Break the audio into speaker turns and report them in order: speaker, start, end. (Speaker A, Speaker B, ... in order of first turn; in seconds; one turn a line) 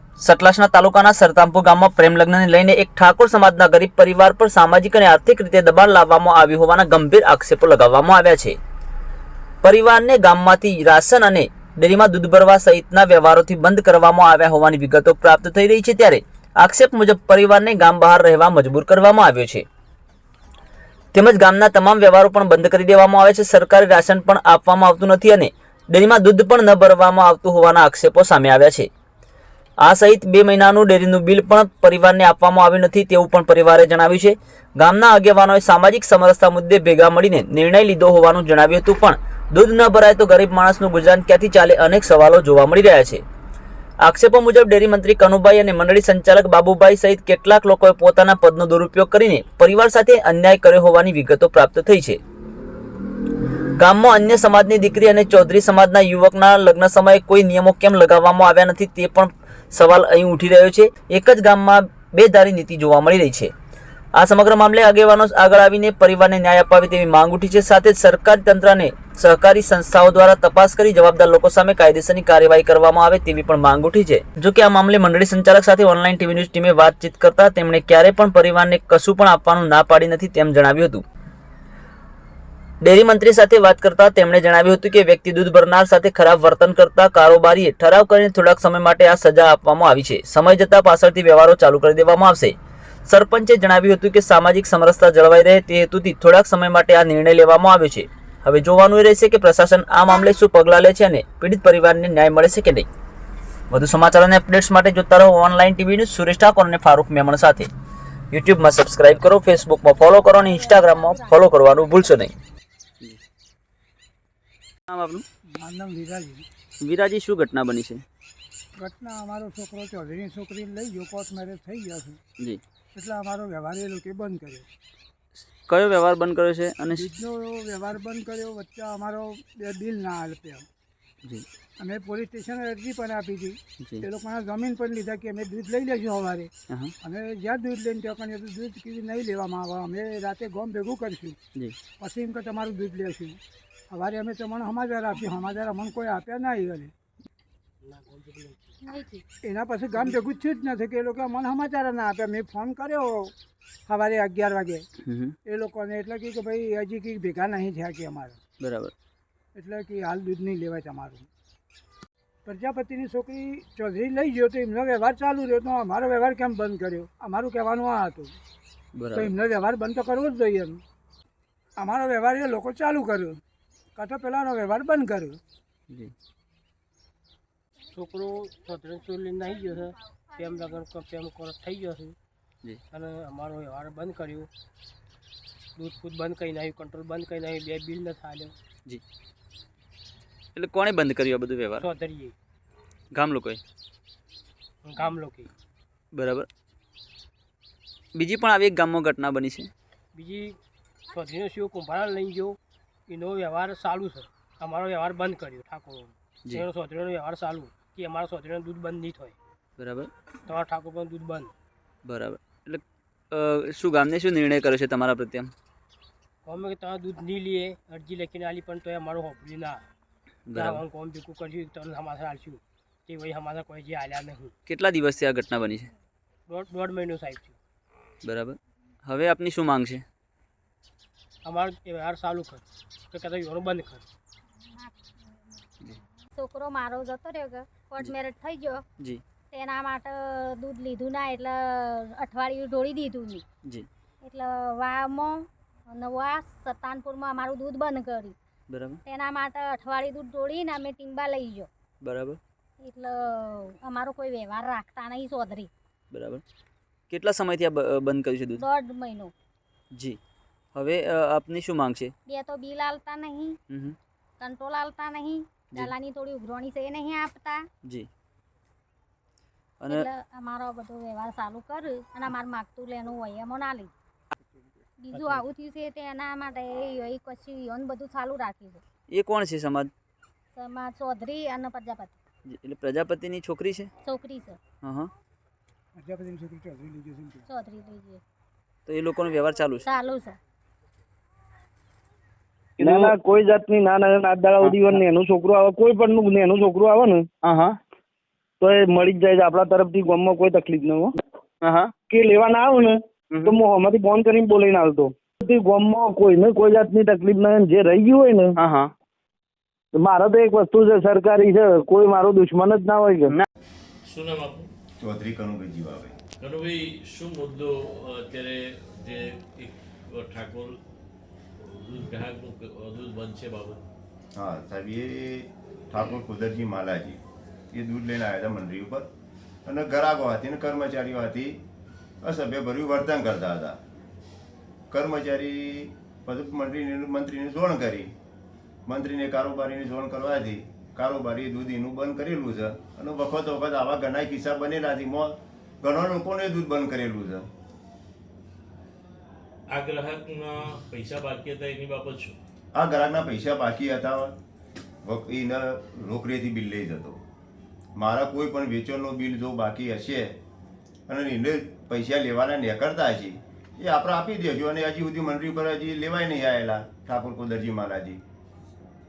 Speaker A: 0.2-8.6
Speaker A: 9.6-19.6
Speaker A: 21.1-28.9
Speaker A: 29.8-43.2
Speaker A: 44.0-52.2
Speaker A: 53.8-63.5
Speaker A: 64.2-81.0
Speaker A: 82.8-92.5
Speaker A: 93.1-102.9
Speaker A: 103.7-107.7
Speaker A: 108.3-112.3
Speaker B: 110.0-112.1
Speaker A: 114.9-115.2
Speaker C: 115.6-116.4
Speaker A: 116.8-118.0
Speaker C: 118.8-122.2
Speaker C: 122.9-124.7
Speaker A: 125.7-127.0
Speaker C: 126.9-130.7
Speaker C: 131.8-136.5
Speaker C: 137.0-141.4
Speaker C: 142.0-143.4
Speaker C: 143.9-146.9
Speaker D: 147.8-148.8
Speaker B: 148.8-149.2
Speaker C: 149.4-153.3
Speaker C: 153.9-154.8
Speaker A: 155.0-155.3
Speaker C: 155.4-158.4
Speaker A: 158.6-158.9
Speaker C: 159.6-161.3
Speaker C: 162.4-168.3
Speaker A: 168.9-169.3
Speaker C: 169.1-170.8
Speaker C: 171.8-173.4
Speaker C: 173.9-175.4
Speaker D: 177.9-182.2
Speaker D: 182.9-184.5
Speaker D: 185.8-188.5
Speaker A: 190.5-191.9
Speaker D: 191.8-192.3
Speaker A: 193.1-193.6
Speaker D: 194.8-195.5
Speaker A: 196.1-196.5
Speaker A: 198.1-199.7
Speaker D: 200.1-200.5
Speaker D: 201.1-202.6
Speaker D: 203.1-209.3
Speaker A: 209.8-210.1
Speaker D: 210.5-211.5
Speaker A: 212.1-215.5
Speaker D: 216.4-219.8
Speaker A: 220.5-220.8
Speaker D: 220.5-224.5
Speaker A: 224.7-225.9
Speaker D: 226.5-227.6
Speaker A: 228.2-230.0
Speaker D: 231.4-234.1
Speaker B: 236.3-238.8
Speaker B: 239.5-243.4
Speaker B: 244.2-248.3
Speaker A: 248.7-249.0
Speaker B: 249.0-251.7
Speaker A: 252.0-252.4
Speaker B: 252.8-255.7
Speaker A: 256.1-256.4
Speaker A: 257.1-258.6
Speaker B: 258.5-259.3
Speaker A: 259.9-260.2
Speaker A: 260.7-262.1
Speaker B: 262.2-263.6
Speaker A: 263.7-264.0
Speaker B: 264.4-267.6
Speaker A: 269.8-270.1
Speaker B: 269.9-273.9
Speaker B: 275.0-278.8
Speaker D: 275.1-275.4
Speaker A: 279.1-279.9
Speaker B: 280.5-282.2
Speaker A: 282.5-283.9
Speaker B: 284.0-284.6
Speaker A: 284.8-285.1
Speaker C: 285.9-287.4
Speaker B: 287.5-288.2
Speaker A: 288.9-289.8
Speaker B: 289.8-290.4
Speaker E: 292.8-297.3
Speaker A: 292.8-293.1
Speaker A: 294.6-295.0
Speaker A: 297.4-297.8
Speaker E: 298.6-301.1
Speaker A: 301.6-301.9
Speaker E: 302.1-308.6
Speaker A: 303.3-303.6
Speaker A: 308.6-308.9
Speaker E: 309.9-313.4
Speaker F: 314.1-314.7
Speaker G: 315.0-316.1
Speaker F: 316.4-320.8
Speaker F: 321.7-323.8
Speaker G: 324.3-327.2
Speaker G: 327.7-329.1
Speaker G: 329.6-331.6
Speaker G: 332.2-333.8
Speaker G: 334.9-338.1
Speaker G: 338.9-347.5
Speaker F: 349.7-352.4
Speaker G: 352.7-354.3
Speaker G: 355.0-357.2
Speaker G: 357.9-360.4
Speaker G: 361.1-368.2